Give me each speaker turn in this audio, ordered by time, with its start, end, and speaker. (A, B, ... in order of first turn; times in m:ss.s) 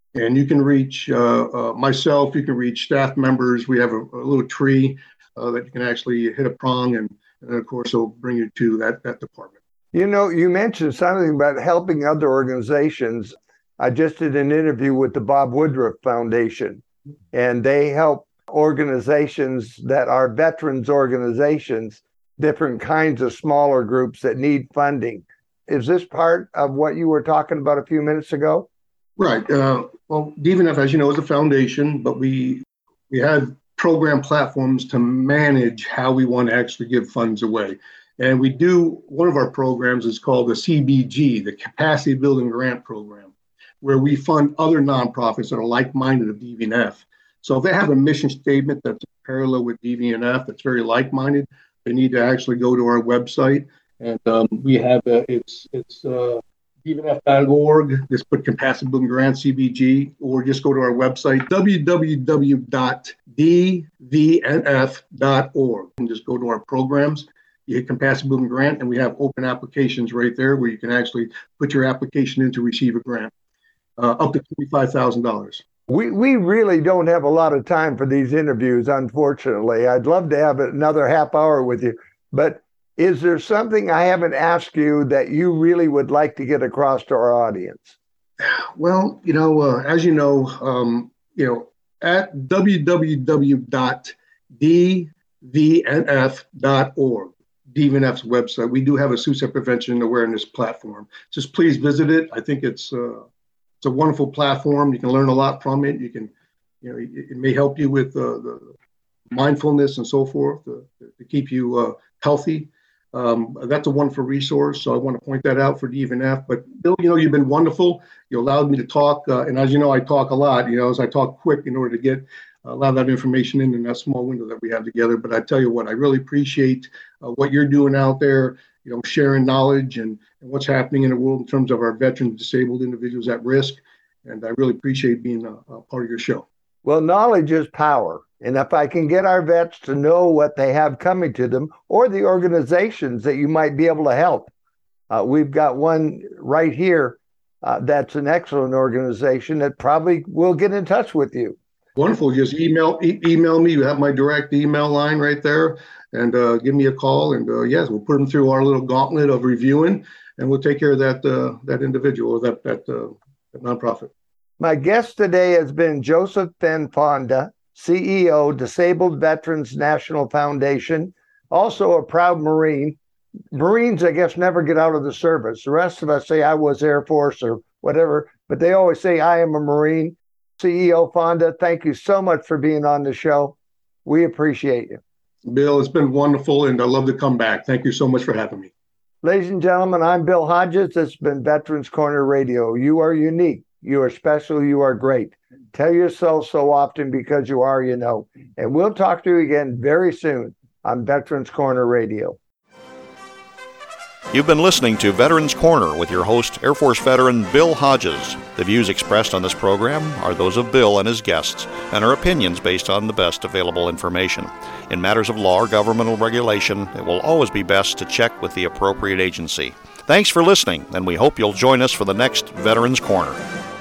0:00.1-0:09.6 A
0:09.9-0:28.7 B
0:29.2-0:43.3 A
0:43.8-1:13.3 A
1:14.0-1:15.6 A
1:15.9-1:28.0 B
1:28.4-1:43.2 A
1:43.8-1:46.3 A
1:46.8-1:48.7 A
1:49.3-2:16.4 A
2:16.8-2:24.5 B
2:25.1-2:31.6 B
2:32.0-2:44.1 A
2:44.6-2:53.0 B
2:53.5-3:05.0 B
3:05.4-3:08.7 A
3:09.2-3:22.4 B
3:24.3-3:43.4 C